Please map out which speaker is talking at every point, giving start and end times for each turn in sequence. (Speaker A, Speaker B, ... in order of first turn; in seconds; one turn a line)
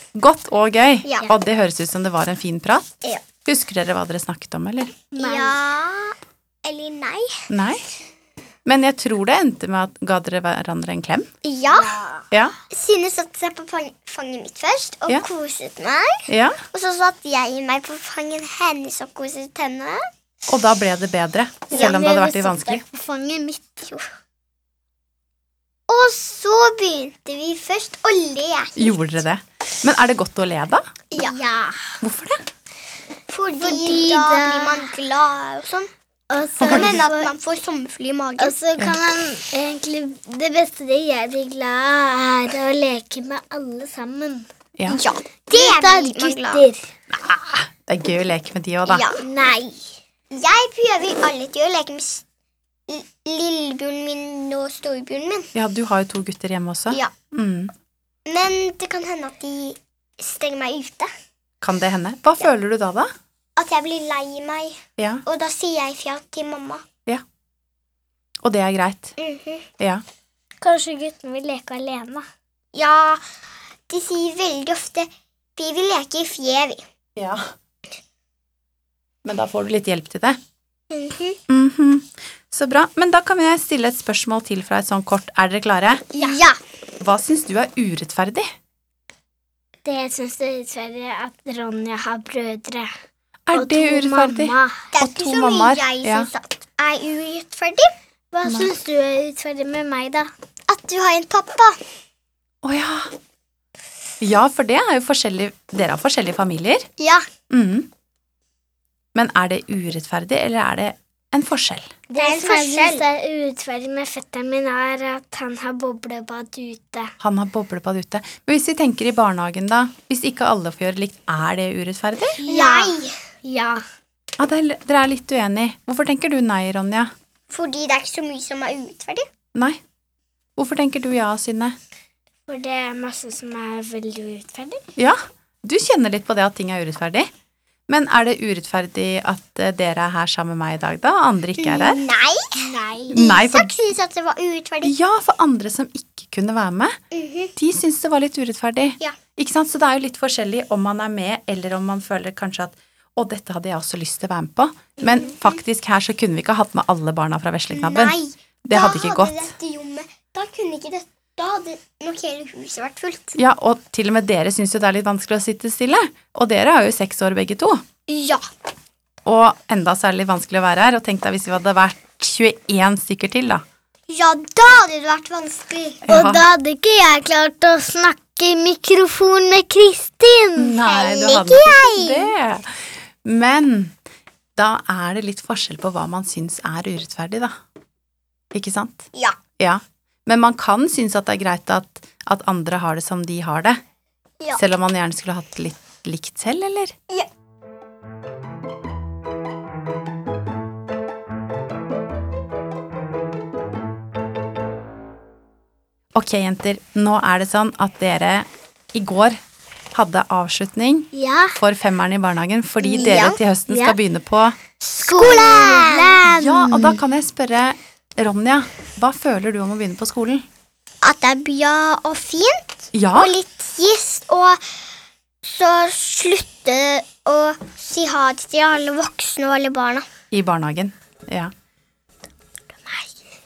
Speaker A: 0.1-2.9
Speaker B: 1.1-1.3
Speaker A: 3.5-5.0
Speaker C: 5.1-5.6
Speaker B: 5.2-7.5
Speaker A: 7.5-7.8
Speaker A: 8.7-11.3
Speaker B: 11.4-12.0
Speaker C: 11.7-12.3
Speaker A: 12.3-12.6
Speaker B: 12.7-20.0
Speaker A: 16.3-16.6
Speaker A: 20.5-22.8
Speaker C: 21.7-23.9
Speaker B: 25.9-29.1
Speaker A: 28.8-30.9
Speaker B: 31.1-31.8
Speaker A: 32.0-32.4
Speaker B: 33.3-35.9
Speaker C: 33.6-34.9
Speaker C: 36.3-37.3
Speaker B: 36.6-38.5
Speaker A: 36.6-36.9
Speaker C: 38.4-44.5
Speaker B: 44.9-46.6
Speaker C: 45.5-46.9
Speaker A: 47.1-49.1
Speaker B: 48.9-49.2
Speaker C: 49.2-49.9
Speaker B: 50.3-52.2
Speaker B: 52.9-55.5
Speaker A: 55.5-57.7
Speaker B: 58.3-61.1
Speaker A: 61.6-63.1
Speaker B: 63.6-66.8
Speaker A: 65.0-65.2
Speaker A: 68.4-69.2
Speaker B: 69.2-69.7
Speaker C: 70.6-72.3
Speaker B: 72.7-73.2
Speaker B: 73.9-76.8
Speaker A: 77.2-77.5
Speaker A: 79.2-80.4
Speaker B: 80.9-81.4
Speaker A: 81.5-86.1
Speaker B: 86.1-86.6
Speaker C: 86.2-86.4
Speaker A: 87.0-88.5
Speaker C: 89.8-92.9
Speaker A: 93.5-96.3
Speaker C: 93.5-94.9
Speaker B: 94.9-97.9
Speaker C: 98.3-100.3
Speaker A: 98.5-98.7
Speaker B: 100.7-101.8
Speaker A: 102.6-103.1
Speaker A: 104.2-106.9
Speaker B: 107.0-107.3
Speaker A: 107.5-107.9
Speaker A: 109.2-111.9
Speaker B: 112.1-113.0
Speaker C: 112.1-117.1
Speaker A: 117.2-122.4
Speaker C: 122.3-123.8
Speaker B: 122.5-123.2
Speaker A: 124.4-127.1
Speaker B: 127.5-129.3
Speaker A: 129.6-129.8
Speaker A: 130.6-131.8
Speaker C: 132.5-134.8
Speaker A: 135.0-137.3
Speaker A: 137.9-142.0
Speaker B: 141.6-144.9
Speaker C: 142.6-143.2
Speaker A: 143.1-143.7
Speaker A: 144.8-147.0
Speaker B: 147.1-147.5
Speaker A: 147.6-159.5
Speaker B: 155.0-155.6
Speaker B: 157.7-163.4
Speaker A: 163.3-167.8
Speaker B: 168.1-168.5
Speaker A: 169.2-173.6
Speaker B: 174.1-176.1
Speaker A: 176.1-176.5
Speaker C: 176.1-180.8
Speaker A: 180.6-183.9
Speaker B: 180.8-182.3
Speaker A: 184.6-187.6
Speaker A: 188.5-189.1
Speaker A: 189.6-193.8
Speaker A: 194.6-197.0
Speaker A: 206.1-209.4
Speaker A: 209.9-214.6
Speaker C: 211.1-211.6
Speaker B: 212.8-213.4
Speaker C: 213.7-214.0
Speaker B: 214.9-216.2
Speaker C: 215.0-217.0
Speaker A: 216.3-220.4
Speaker B: 221.0-224.7
Speaker A: 222.9-223.3
Speaker B: 225.4-230.1
Speaker A: 230.3-231.5
Speaker C: 232.9-233.1